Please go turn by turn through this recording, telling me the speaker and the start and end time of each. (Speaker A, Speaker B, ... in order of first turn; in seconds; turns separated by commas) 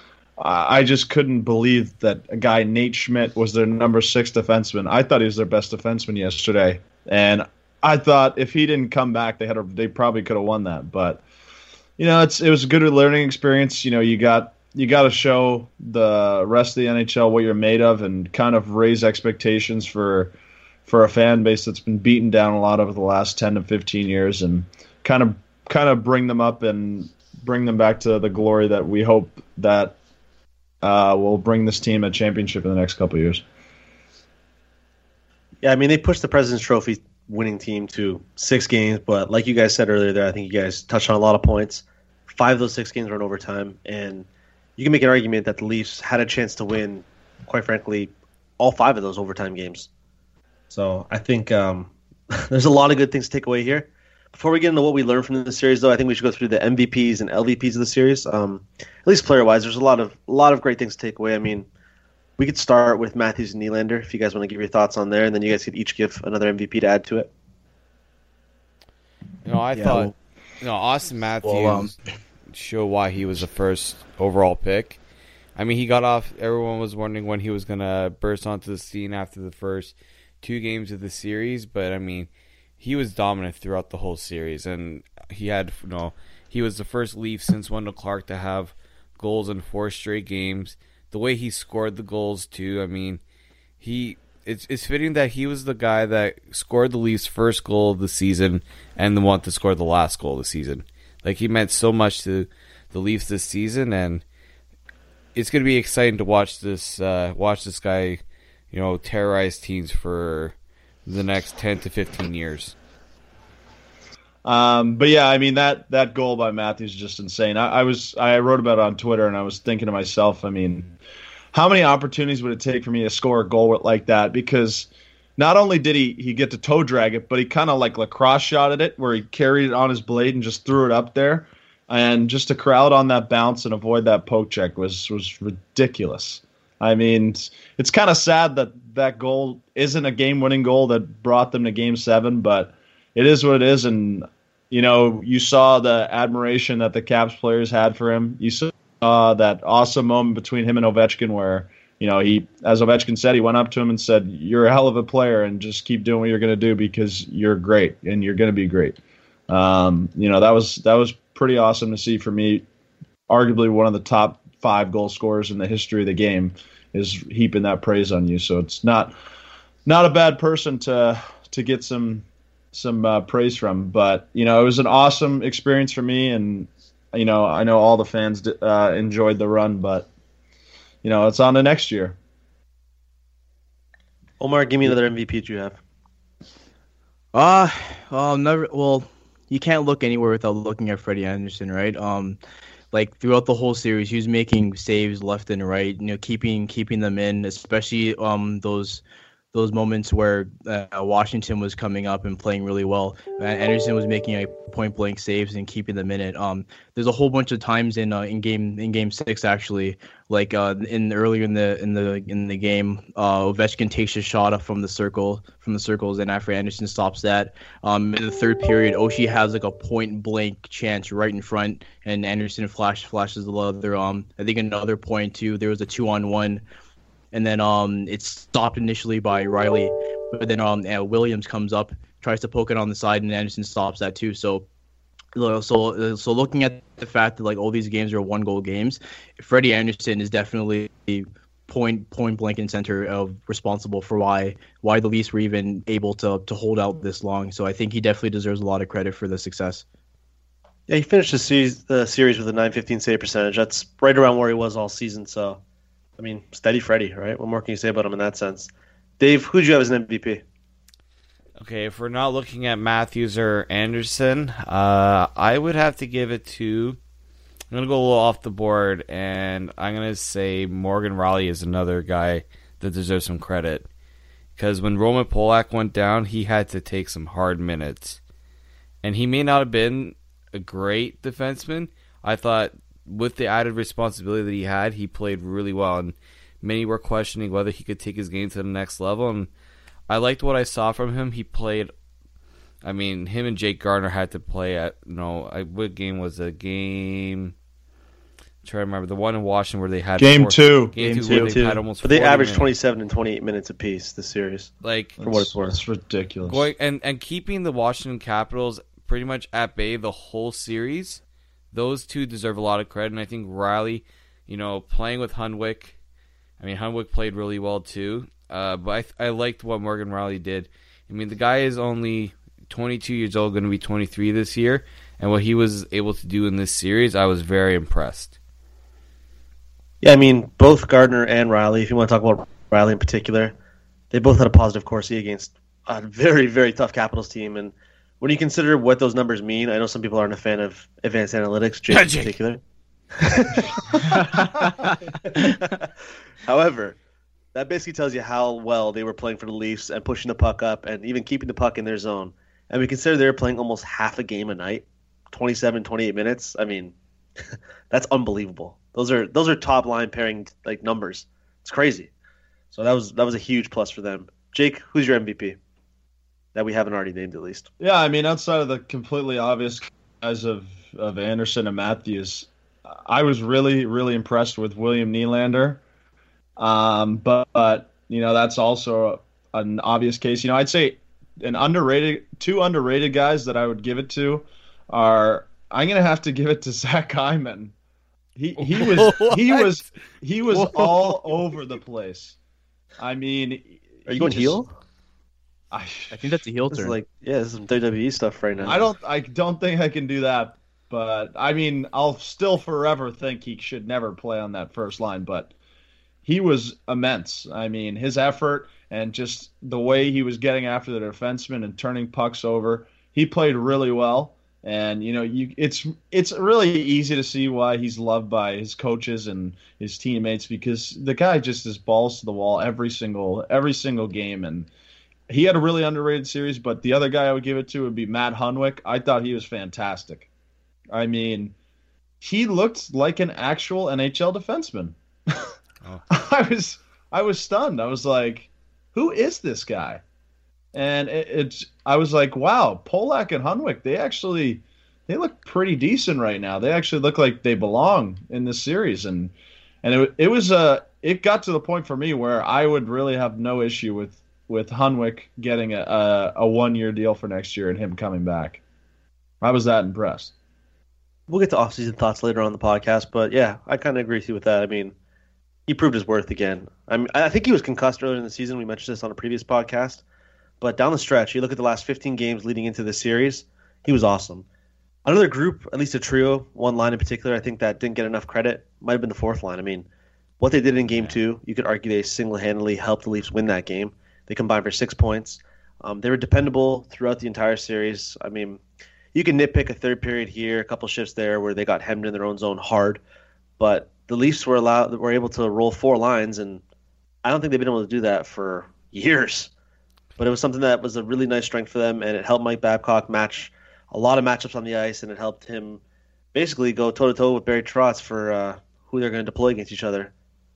Speaker A: 0.4-11.2, Speaker A: 12.0-20.3, Speaker A: 20.9-29.9, Speaker A: 30.8-33.4, Speaker B: 35.6-49.9, Speaker B: 50.7-51.9, Speaker B: 52.5-61.7, Speaker B: 62.4-67.3, Speaker C: 69.4-71.9, Speaker D: 69.7-70.1, Speaker D: 71.4-71.9, Speaker C: 72.5-75.0, Speaker C: 75.5-82.3, Speaker C: 82.8-93.2, Speaker C: 93.8-104.2, Speaker C: 105.3-108.2, Speaker C: 108.7-110.5, Speaker C: 111.0-112.7, Speaker A: 114.4-120.9, Speaker A: 121.5-162.6, Speaker A: 163.3-169.1, Speaker A: 169.8-180.1, Speaker A: 181.0-182.2, Speaker B: 184.4-185.8, Speaker D: 187.3-192.4, Speaker D: 192.9-199.0, Speaker D: 199.5-226.6, Speaker D: 227.3-234.7, Speaker D: 235.3-249.8, Speaker B: 250.9-255.6, Speaker B: 256.2-260.4, Speaker C: 261.6-267.0, Speaker C: 267.7-273.9, Speaker C: 274.6-278.2, Speaker C: 279.0-289.5, Speaker C: 290.1-291.9, Speaker C: 292.8-297.5, Speaker C: 298.6-302.7, Speaker A: 300.2-300.9, Speaker D: 301.0-301.7, Speaker B: 301.3-304.7, Speaker C: 304.8-305.2, Speaker A: 305.2-306.7, Speaker B: 305.2-305.8, Speaker C: 306.4-311.2, Speaker C: 311.7-315.9, Speaker C: 316.6-328.4, Speaker B: 330.0-333.5, Speaker B: 334.1-342.6, Speaker B: 343.2-343.7, Speaker D: 344.1-344.7, Speaker B: 345.2-345.9, Speaker B: 346.4-347.0, Speaker B: 347.5-356.9, Speaker B: 357.9-362.1, Speaker B: 362.7-365.6, Speaker B: 366.5-367.7, Speaker A: 367.8-375.8, Speaker A: 376.6-387.7, Speaker A: 388.4-392.4, Speaker C: 388.7-389.7, Speaker D: 389.0-389.3, Speaker D: 390.5-390.9, Speaker A: 393.0-394.6, Speaker B: 394.1-394.7, Speaker A: 395.7-396.4, Speaker D: 396.1-397.0, Speaker B: 396.7-398.9, Speaker A: 398.6-405.5, Speaker A: 406.2-424.7, Speaker A: 425.3-430.3, Speaker A: 430.9-431.5, Speaker A: 432.2-435.5, Speaker A: 436.1-440.0, Speaker A: 440.7-458.6, Speaker A: 459.4-460.3, Speaker B: 461.3-464.9, Speaker B: 465.7-470.0, Speaker B: 470.6-474.4, Speaker B: 475.0-479.9, Speaker B: 480.4-488.6, Speaker C: 480.9-481.1, Speaker B: 489.1-493.0, Speaker B: 493.6-496.6, Speaker B: 497.2-499.5, Speaker B: 500.2-505.8, Speaker B: 506.3-510.1